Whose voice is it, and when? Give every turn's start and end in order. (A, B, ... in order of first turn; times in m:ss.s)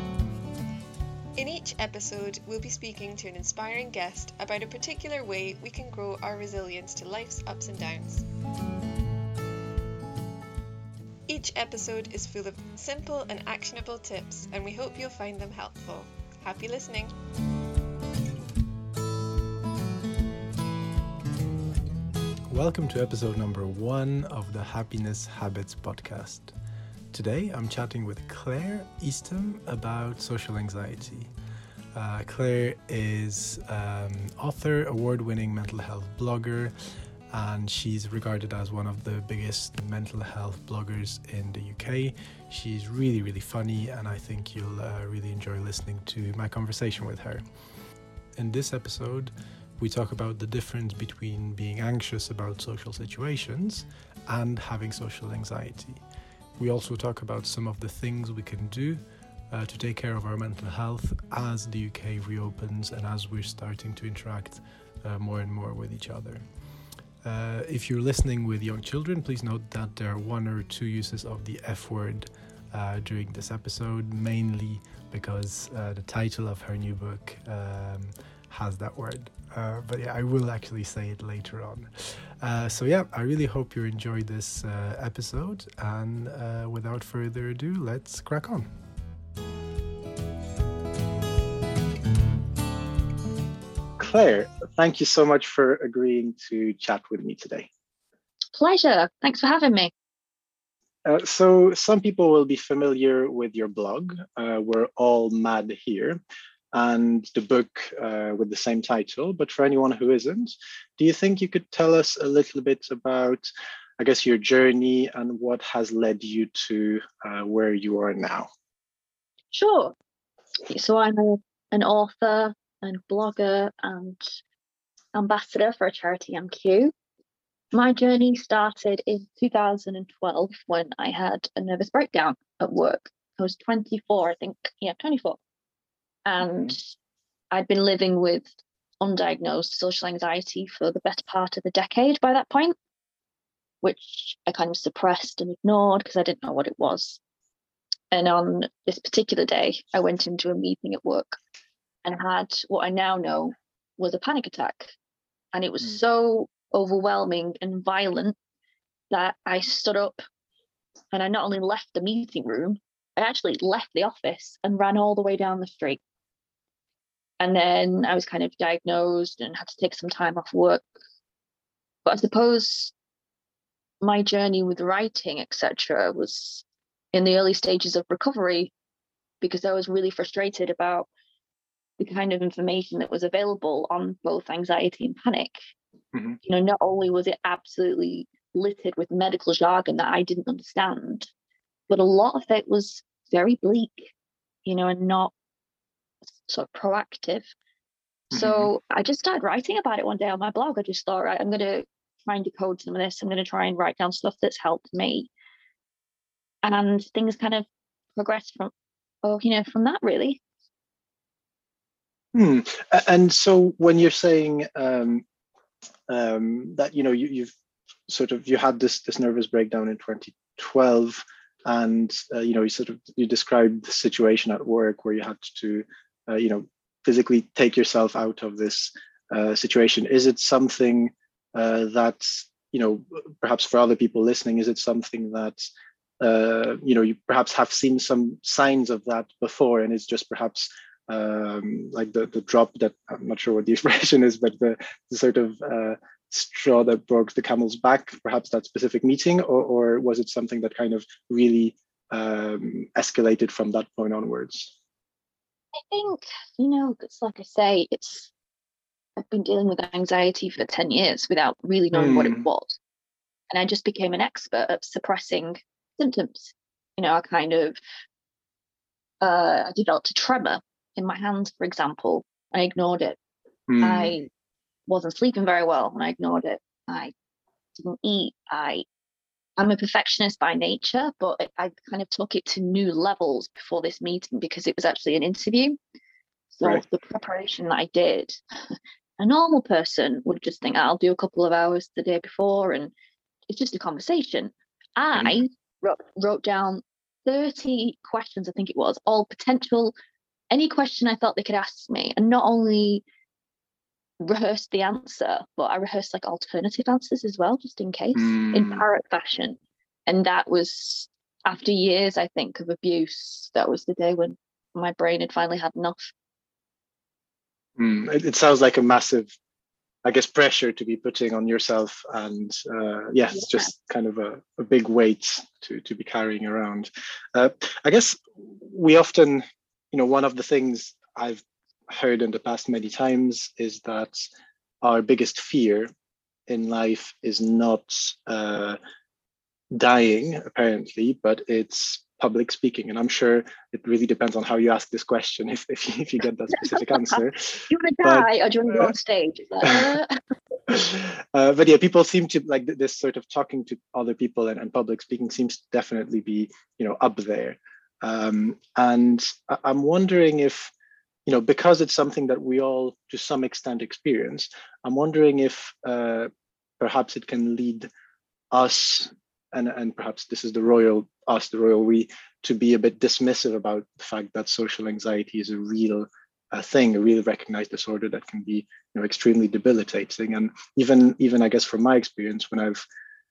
0:01.4-0:08.3 A
0:11.3-0:17.2 A
0:22.5-0:26.5 B
0:27.1-0:31.3 B
0:31.9-0:36.7 B
0:37.3-0:47.4 B
0:48.4-0:56.0 B
0:56.6-1:06.4 B
1:07.2-1:28.7 B
1:34.0-1:37.7 B
1:38.6-1:39.9 C
1:41.0-1:46.2 B
1:46.7-1:53.5 B
1:54.0-1:58.5 B
1:59.5-2:00.0 C
2:00.7-2:04.3 C
2:05.2-2:06.9 C
2:07.7-2:15.4 C
2:16.3-2:16.9 C
2:16.4-2:16.8 B
2:17.5-2:18.5 C
2:19.0-2:22.8 C
2:23.8-2:27.2 C
2:28.1-2:31.4 C
2:32.0-2:34.9 C
2:35.5-2:38.4 C
2:39.1-2:40.2 C
2:41.1-2:46.0 C
2:47.4-2:50.8 C
2:52.0-2:52.9 C
2:54.0-2:58.7 C
2:59.4-3:01.1 C
3:02.0-3:05.6 C
3:06.4-3:11.3 C
3:11.9-3:14.1 C
3:14.7-3:15.3 C
3:16.5-3:17.5 C
3:18.3-3:18.7 B
3:18.3-3:25.3 C
3:26.6-3:28.7 C
3:29.2-3:30.4 C
3:32.3-3:35.2 B
3:36.1-3:37.5 B
3:38.1-3:55.6 B
3:56.2-4:14.7 B
4:15.8-4:18.3 C
4:19.2-4:22.8 C
4:21.9-4:22.4 B
4:23.5-4:27.8 C
4:29.2-4:33.2 C
4:33.7-4:34.2 B
4:33.8-4:34.3 C
4:34.9-4:37.1 C
4:37.8-4:38.8 C
4:39.6-4:45.8 C
4:46.5-4:48.4 C
4:49.2-4:52.9 C
4:53.5-5:00.0 C
4:55.1-4:55.4 B
5:00.5-5:03.0 C
5:04.2-5:16.1 C
5:08.2-5:08.9 B
5:17.8-5:19.3 B
5:20.0-5:34.2 B
5:23.4-5:23.7 C
5:34.8-5:35.9 B
5:36.5-5:38.8 B
5:39.7-5:48.9 B
5:46.5-5:50.2 C
5:49.7-5:49.9 B
5:50.7-6:00.7 B
6:01.3-6:06.3 B
6:06.8-6:07.9 B
6:08.5-6:22.8 B